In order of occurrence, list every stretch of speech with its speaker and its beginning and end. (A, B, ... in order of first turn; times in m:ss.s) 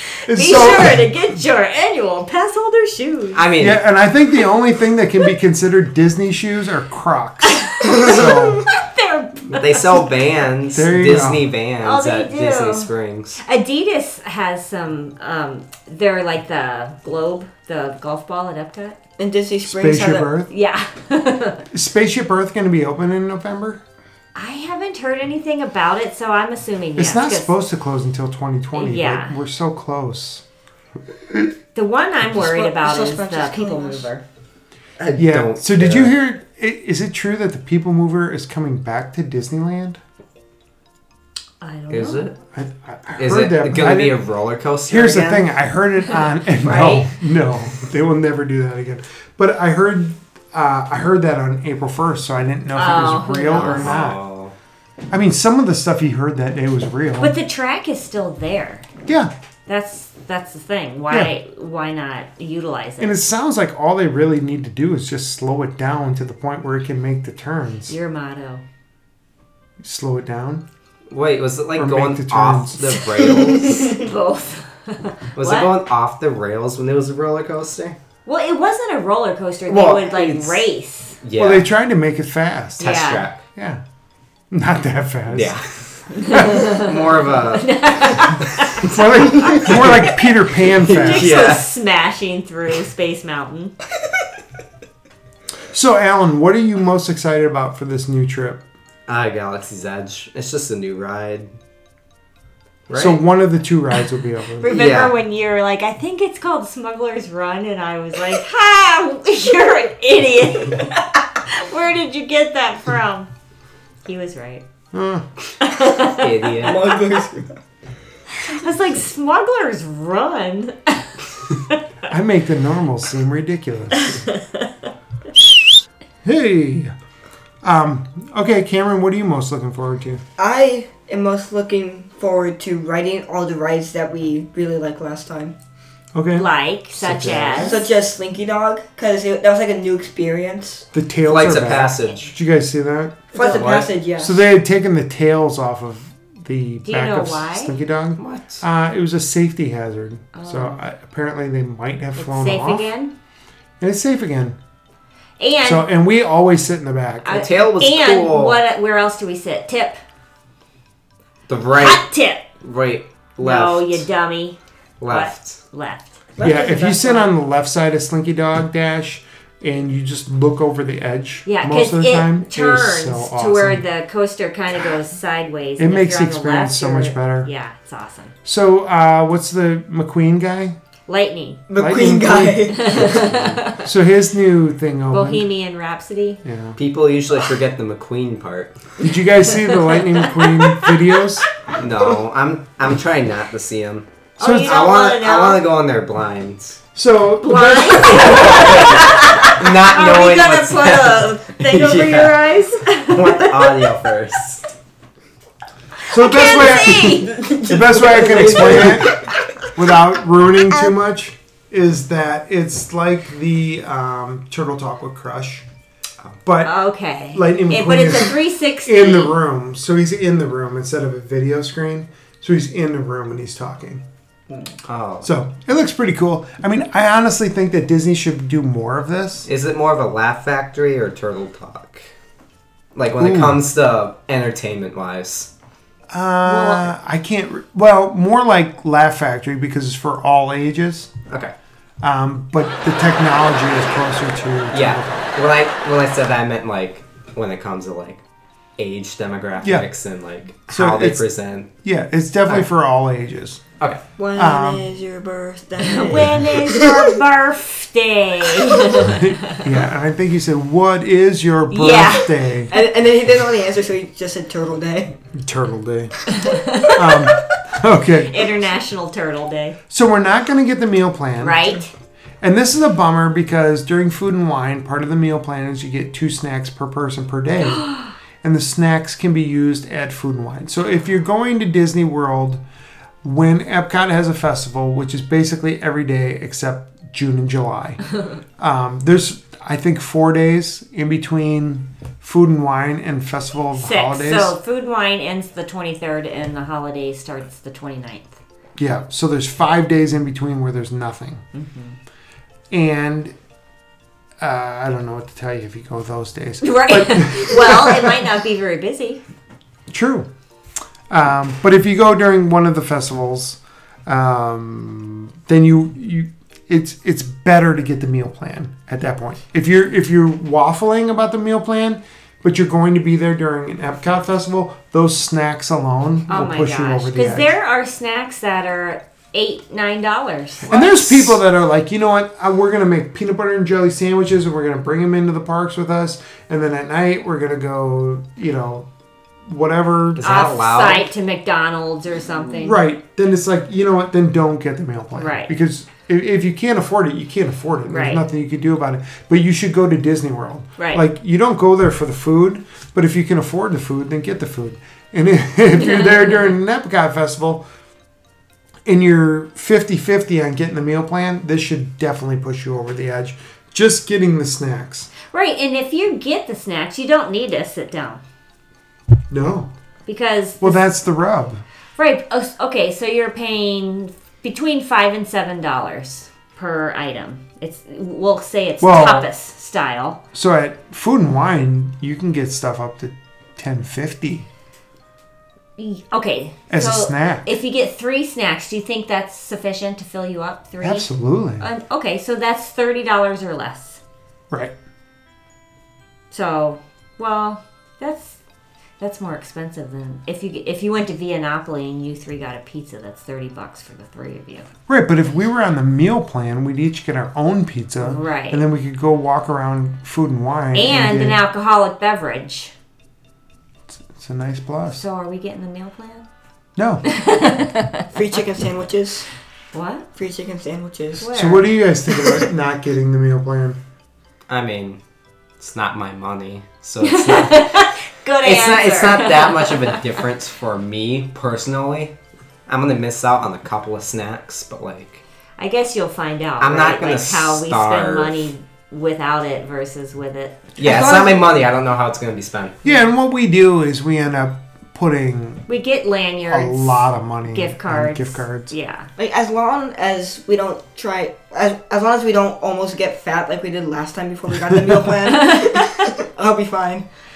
0:00.2-0:01.1 A
0:00.3-0:03.4 B
0:03.3-0:03.8 C
0:03.6-0:08.7 A
0:07.6-0:09.9 B
0:09.5-0:13.4 C
0:10.7-0:11.5 A
0:11.8-0:19.0 B
0:19.2-0:20.3 D
0:19.6-0:20.5 A
0:20.5-0:21.6 B
0:21.7-0:23.8 A
0:24.3-0:27.5 B
0:27.0-0:30.4 A
0:28.7-0:29.3 B
0:31.7-0:34.2 B
0:32.3-0:34.1 D
0:35.0-0:36.1 C
0:35.1-0:40.0 A
0:41.6-0:42.3 B
0:41.9-0:42.3 C
0:42.5-0:44.2 A
0:43.2-0:45.5 C
0:44.9-0:54.2 A
0:46.6-0:47.1 B
0:52.7-0:54.0 B
0:53.5-0:54.5 C
0:55.1-0:57.3 A
0:57.2-0:58.8 B
0:59.0-0:59.3 A
0:59.7-1:03.2 B
1:03.0-1:08.0 A
1:07.9-1:08.6 B
1:09.8-1:10.6 A
1:11.1-1:14.0 C
1:11.8-1:13.0 A
1:13.6-1:15.7 B
1:15.4-1:18.0 C
1:18.2-1:21.2 B
1:19.7-1:20.3 A
1:20.1-1:20.4 C
1:21.2-1:21.7 C
1:21.4-1:22.9 A
1:22.8-1:23.3 B
1:22.8-1:23.4 C
1:23.5-1:23.8 A
1:24.5-1:25.6 A
1:25.3-1:28.9 C
1:26.1-1:29.7 B
1:28.8-1:31.5 A
1:29.5-1:30.1 C
1:30.8-1:31.7 C
1:30.8-1:33.7 B
1:35.7-1:38.6 A
1:39.1-1:41.5 C
1:42.9-1:43.2 C
1:42.9-1:44.7 A
1:44.6-1:53.3 B
1:44.7-1:45.1 C
1:54.0-1:54.6 B
1:54.9-1:55.2 A
1:55.6-1:56.7 B
1:56.0-1:56.8 C
1:56.6-1:57.5 D
1:58.4-2:01.1 B
2:02.1-2:04.2 A
2:06.2-2:06.9 A
2:07.6-2:10.2 A
2:10.4-2:15.6 D
2:16.1-2:17.8 A
2:16.4-2:17.8 B
2:17.6-2:20.8 D
2:20.9-2:23.6 A
2:21.2-2:22.3 C
2:23.3-2:24.4 D
2:23.4-2:23.9 C
2:24.2-2:32.9 A
2:26.8-2:27.7 B
2:28.2-2:28.6 C
2:30.3-2:30.8 B
2:32.2-2:33.1 B
2:33.8-2:34.6 A
2:35.4-2:35.9 B
2:35.6-2:37.4 A
2:37.2-2:40.0 B
2:37.3-2:38.6 C
2:41.5-2:42.0 C
2:41.8-2:42.4 B
2:42.6-2:44.0 C
2:43.4-2:46.2 B
2:45.0-2:45.6 C
2:46.4-2:47.3 D
2:46.4-2:53.8 A
2:51.4-2:58.3 B
2:55.8-2:57.5 A
2:58.4-3:00.8 A
3:01.1-3:01.6 B
3:01.7-3:03.3 D
3:01.8-3:02.8 A
3:02.7-3:03.9 B
3:03.1-3:03.6 C
3:03.8-3:05.5 A
3:05.1-3:06.4 B
3:06.4-3:06.8 A
3:06.8-3:08.8 C
3:09.0-3:11.4 A
3:09.5-3:10.9 B
3:11.8-3:16.8 C
3:14.4-3:14.8 A
3:14.4-3:15.6 B
3:16.9-3:18.9 A
3:17.4-3:23.9 B
3:18.8-3:24.7 C
3:26.1-3:27.5 B
3:26.1-3:35.6 A
3:26.6-3:29.3 D
3:36.4-3:36.7 A
3:36.6-3:39.4 B
3:37.3-3:44.0 A
3:44.8-3:45.3 C
3:45.2-3:49.5 A
3:49.5-3:52.1 C
3:52.9-3:55.5 C
3:53.2-3:53.6 A
3:56.1-4:01.1 A
3:56.4-3:56.9 B
4:02.0-4:05.4 A
4:04.7-4:08.2 C
4:08.8-4:11.7 C
4:09.6-4:09.9 A
4:10.7-4:11.2 A
4:11.8-4:13.6 A
4:14.2-4:17.1 D
4:14.3-4:14.9 A
4:15.8-4:19.6 B
4:19.1-4:22.7 A
4:21.7-4:22.3 B
4:22.7-4:25.2 D
4:25.3-4:26.2 A
4:26.3-4:27.2 B
4:26.9-4:28.4 A
4:28.3-4:29.8 B
4:29.9-4:31.8 A
4:31.4-4:31.9 B
4:32.4-4:37.9 A
4:38.4-4:42.6 A
4:43.2-4:48.0 A
4:48.6-4:54.5 A
4:53.8-4:58.4 B
4:58.8-5:01.4 A
5:01.5-5:02.0 B
5:02.7-5:03.3 A
5:04.4-5:08.2 A
5:06.6-5:09.2 B
5:09.9-5:10.3 A
5:11.1-5:27.5 A
5:26.3-5:31.3 B
5:30.7-5:38.9 A
5:39.4-5:40.4 A
5:40.2-5:41.0 C
5:40.2-5:42.8 B
5:42.5-5:57.6 A
5:45.2-5:45.5 B
5:47.9-5:48.2 B
5:50.8-5:51.0 B
5:55.8-5:56.5 B
5:58.8-6:05.1 A
6:05.3-6:08.2 B
6:09.3-6:09.7 A
6:10.1-6:10.8 B
6:10.6-6:11.6 A
6:12.0-6:20.2 B
6:18.8-6:19.3 A
6:20.3-6:24.5 A
6:25.8-6:31.1 B
6:26.7-6:27.5 A
6:30.8-6:31.7 A
6:31.6-6:34.0 B
6:36.3-6:38.4 B
6:39.0-6:44.7 B
6:44.9-6:51.4 A
6:48.0-6:48.6 B
6:50.7-6:52.7 B
6:54.1-6:55.0 A
6:54.9-6:56.3 B
6:56.8-6:57.0 A
6:57.0-6:58.1 B
6:58.1-6:59.3 D
6:59.7-7:00.1 B
7:00.1-7:01.3 D
7:01.2-7:01.7 B
7:01.3-7:03.8 A
7:02.1-7:02.5 D
7:04.5-7:05.0 C
7:05.6-7:12.1 C
7:07.0-7:10.2 B
7:12.7-7:15.2 C
7:15.6-7:20.6 B
7:16.6-7:18.5 C
7:20.8-7:21.5 D
7:20.8-7:22.8 C
7:22.8-7:25.7 A
7:25.7-7:29.1 B
7:26.5-7:28.7 A
7:29.2-7:37.0 D